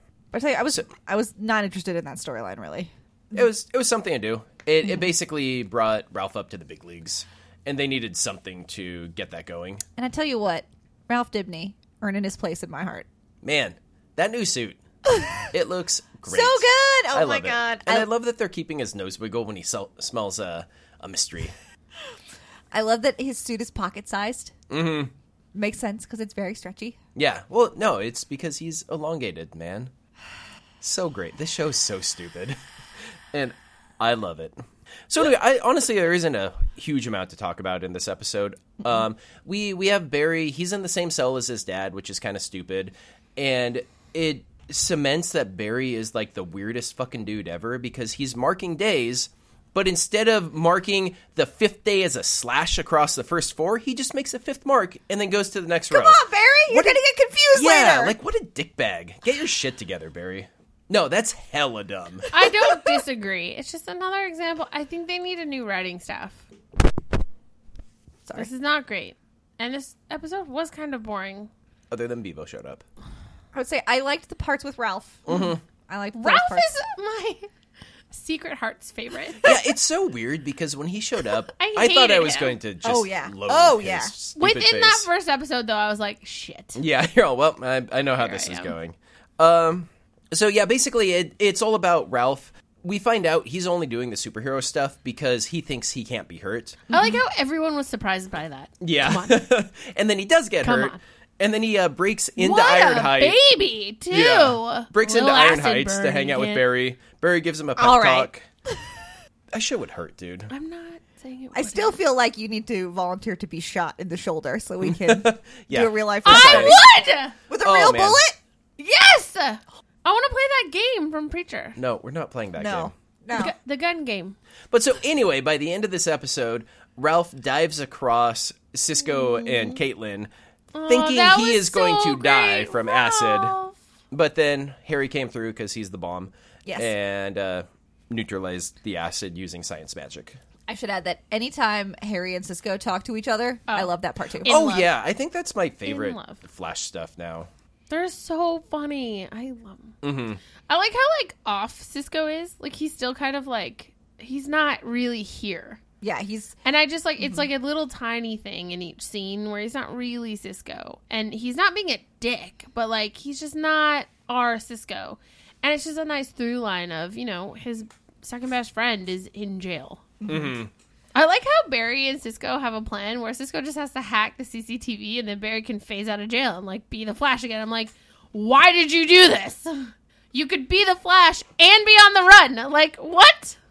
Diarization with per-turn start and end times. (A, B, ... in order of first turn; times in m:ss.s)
0:00.3-0:03.4 A
0:03.3-0:09.8 B
0:10.0-0:13.0 A
0:13.4-0:14.8 B
0:15.5-0:21.5 B
0:16.3-0:18.1 A
0:22.7-0:24.5 A
0:24.7-0:25.1 B
0:25.5-0:27.0 A
0:27.2-0:29.9 B
0:30.8-0:32.6 B
0:33.3-0:34.6 B
0:35.1-0:57.0 B
0:55.9-0:58.2 A
0:57.5-1:02.6 B
1:02.3-1:06.4 C
1:08.3-1:11.5 C
1:11.9-1:12.8 B
1:13.5-1:16.7 A
1:15.3-1:15.6 B
1:16.1-1:17.5 C
1:18.1-1:19.5 C
1:19.4-1:25.1 B
1:21.5-1:22.6 C
1:22.8-1:24.1 A
1:24.4-1:26.8 C
1:26.8-1:36.8 B
1:28.2-1:28.7 C
1:36.9-1:39.4 C
1:36.9-1:37.2 A
1:38.8-1:43.4 B
1:40.6-1:41.0 C
1:42.4-1:46.6 C
1:44.1-1:48.4 B
1:47.8-1:48.8 A
1:49.5-1:50.5 B
1:50.5-1:52.0 C
1:51.5-1:56.8 A
1:54.8-1:56.8 B
1:56.2-1:57.4 C
1:57.5-1:58.4 A
1:57.6-1:58.2 B
1:58.8-2:01.8 C
2:01.8-2:02.9 B
2:02.6-2:03.5 A
2:03.3-2:04.4 C
2:04.7-2:10.3 B
2:09.4-2:09.8 A
2:10.7-2:13.8 C
2:10.9-2:13.5 B
2:14.1-2:20.4 B
2:16.6-2:16.9 A
2:20.7-2:24.6 A
2:23.7-2:24.9 C
2:24.4-2:27.5 B
2:25.8-2:26.4 C
2:27.9-2:30.0 C
2:30.0-2:30.4 B
2:30.7-2:35.8 C
2:36.0-2:36.5 A
2:36.6-2:50.1 C
2:50.2-2:50.5 A
2:50.3-2:50.7 B
2:51.1-3:03.6 C